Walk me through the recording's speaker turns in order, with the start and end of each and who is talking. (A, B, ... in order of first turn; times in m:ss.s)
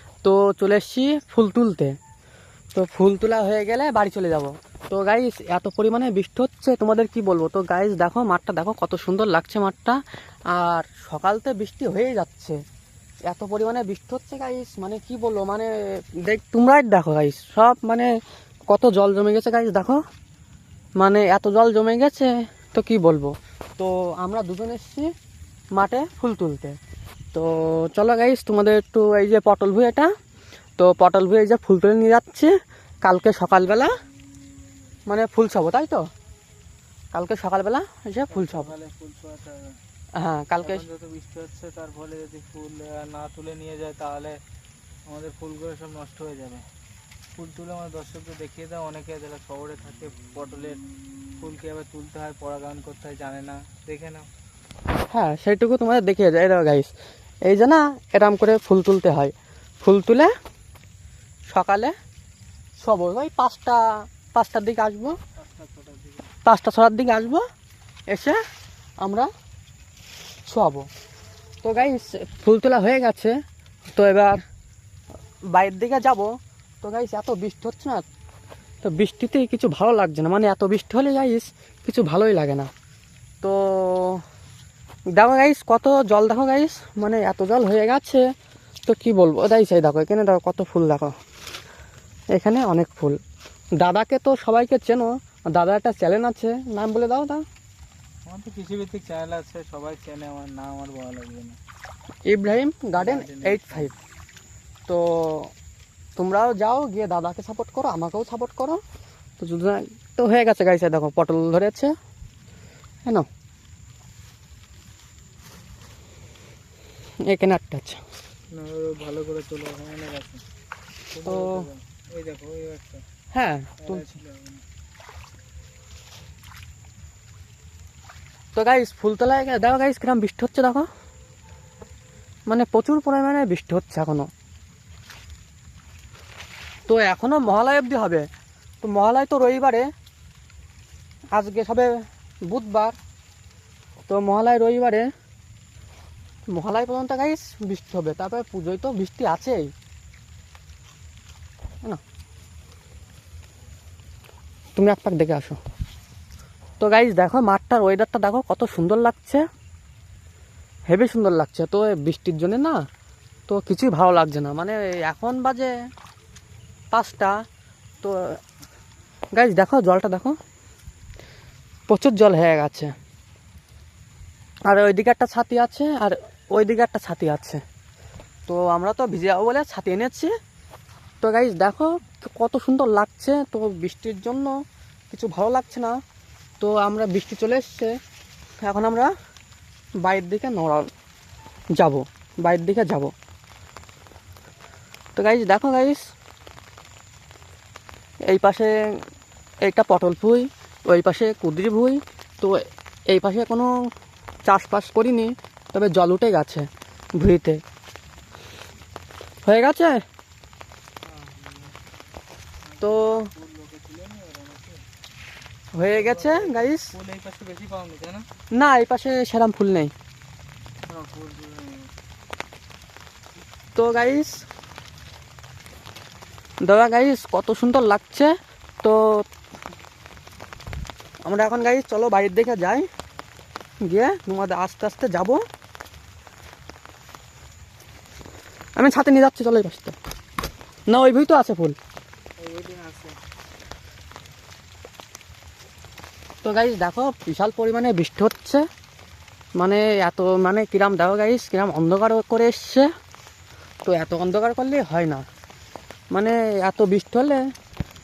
0:00.2-0:02.0 A
0:02.7-0:10.0 A
0:10.5-0:12.6 A
0:13.3-0:15.7 A
0:16.2-0:18.1 A
0:18.7-0:20.0 A
0:21.0-0:25.1 A
0:25.8-0:26.8 A
0:27.3-0:30.1 A
0:30.8-0:32.5 A
0:33.0-0:33.9 A
0:35.1-0:36.0 A
0:37.1-0:38.7 A
0:38.3-0:39.8 B
0:40.2-0:40.8 A
0:40.6-0:44.4 B
0:45.1-0:46.6 B
0:47.4-0:50.8 B
0:51.4-0:54.3 B
0:55.1-0:56.9 A
0:57.4-1:00.3 A
1:01.5-1:01.9 A
1:02.8-1:05.2 A
1:05.4-1:06.3 B
1:06.4-1:07.4 A
1:08.1-1:08.4 A
1:09.0-1:09.3 A
1:10.5-1:10.9 A
1:11.6-1:13.3 A
1:13.9-1:14.4 A
1:15.5-1:16.3 A
1:16.8-1:18.0 A
1:18.8-1:22.7 A
1:23.4-1:24.2 A
1:25.1-1:28.2 A
1:28.8-1:31.1 A
1:32.3-1:33.2 A
1:33.8-1:37.4 A
1:38.2-1:41.6 B
1:42.3-1:43.9 A
1:43.0-1:43.9 B
1:44.9-1:45.5 A
1:46.2-1:48.8 A
1:49.4-1:51.9 A
1:57.2-1:58.0 A
1:58.5-2:00.4 B
2:01.1-2:03.0 B
2:01.2-2:01.6 A
2:03.3-2:04.1 A
2:03.8-2:04.6 B
2:08.5-2:10.8 A
2:12.5-2:14.3 A
2:16.9-2:18.3 A
2:18.8-2:19.9 A
2:21.3-2:23.0 A
2:24.1-2:25.1 A
2:26.5-2:29.7 A
2:34.8-2:35.6 A
2:36.8-2:39.4 A
2:40.9-2:42.8 A
2:43.5-2:45.7 A
2:46.9-2:47.3 A
2:48.0-2:48.4 A
2:49.3-2:50.4 A
2:51.9-2:52.9 A
2:54.7-2:57.6 A
2:58.5-3:00.3 A
3:01.2-3:04.5 A
3:05.1-3:06.0 A
3:06.6-3:08.0 A
3:08.6-3:09.1 A
3:10.0-3:10.9 A
3:11.8-3:13.1 A
3:15.2-3:16.0 A
3:18.3-3:18.7 A
3:19.6-3:23.7 A
3:24.4-3:26.6 A
3:27.2-3:27.6 A
3:29.4-3:30.0 A
3:31.0-3:31.8 B
3:32.6-3:34.8 B
3:32.8-3:33.3 A
3:35.8-3:36.9 A
3:35.9-3:38.2 B
3:38.5-3:39.9 A
3:40.9-3:41.9 B
3:43.8-3:44.4 A
3:46.6-3:49.2 A
3:51.2-3:52.8 A
3:53.8-3:55.4 A
3:58.8-3:59.9 A
4:00.9-4:01.8 A
4:02.4-4:03.2 B
4:06.4-4:08.6 A
4:09.6-4:12.9 A
4:13.8-4:15.2 A
4:16.1-4:17.4 A